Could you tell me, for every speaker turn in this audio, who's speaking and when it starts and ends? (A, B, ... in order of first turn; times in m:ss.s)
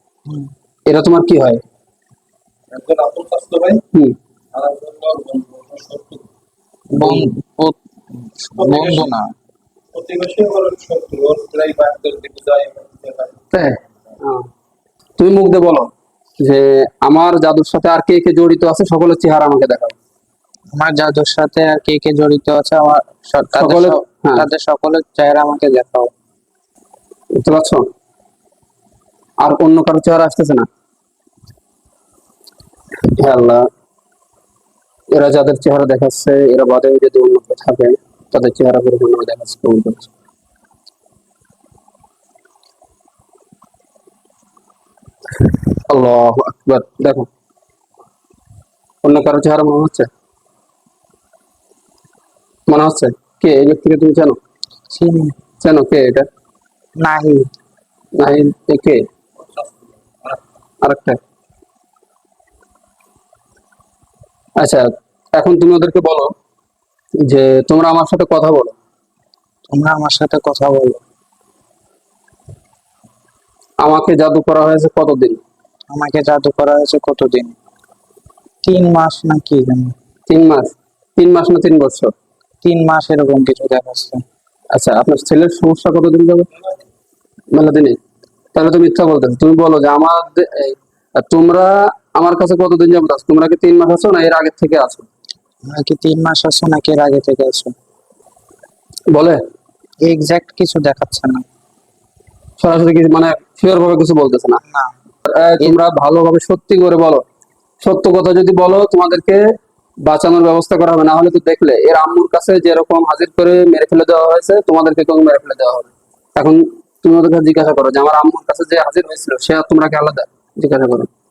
0:00.9-0:01.6 A
0:02.7-0:03.8 B
0:04.5-0:06.2 B
0:06.9-0:09.3 C
0:08.6-0:09.1 B
0:09.9-0:13.4 B
0:13.5-0:14.5 A
0:15.2-0:20.0 A
0:20.8-0:26.1 C
0:23.6-0:24.5 A
0:27.3-0:27.8 A
0:29.4-0:30.7 A
0:33.2-0:33.7 A
0:35.1-0:40.1 A
0:45.4-0:47.3 A
0:49.0-0:50.1 A
0:52.7-0:54.4 A
0:54.9-0:55.3 C
0:55.6-0:56.3 A
0:57.0-0:57.4 C
0:58.2-0:59.0 A
1:00.8-1:01.2 A
1:04.6-1:06.3 A
1:07.2-1:08.8 A
1:09.7-1:11.0 C
1:13.8-1:15.4 A
1:15.9-1:17.5 C
1:18.6-1:19.9 C
1:20.3-1:22.1 A
1:22.6-1:24.2 C
1:24.7-1:26.5 A
1:27.5-1:28.0 A
1:28.5-1:35.1 A
1:35.7-1:37.7 C
1:39.1-1:39.4 A
1:40.0-1:41.4 C
1:42.6-1:44.6 A
1:44.6-1:45.0 C
1:45.3-1:47.2 A
1:47.8-1:49.4 A
1:50.1-2:01.1 A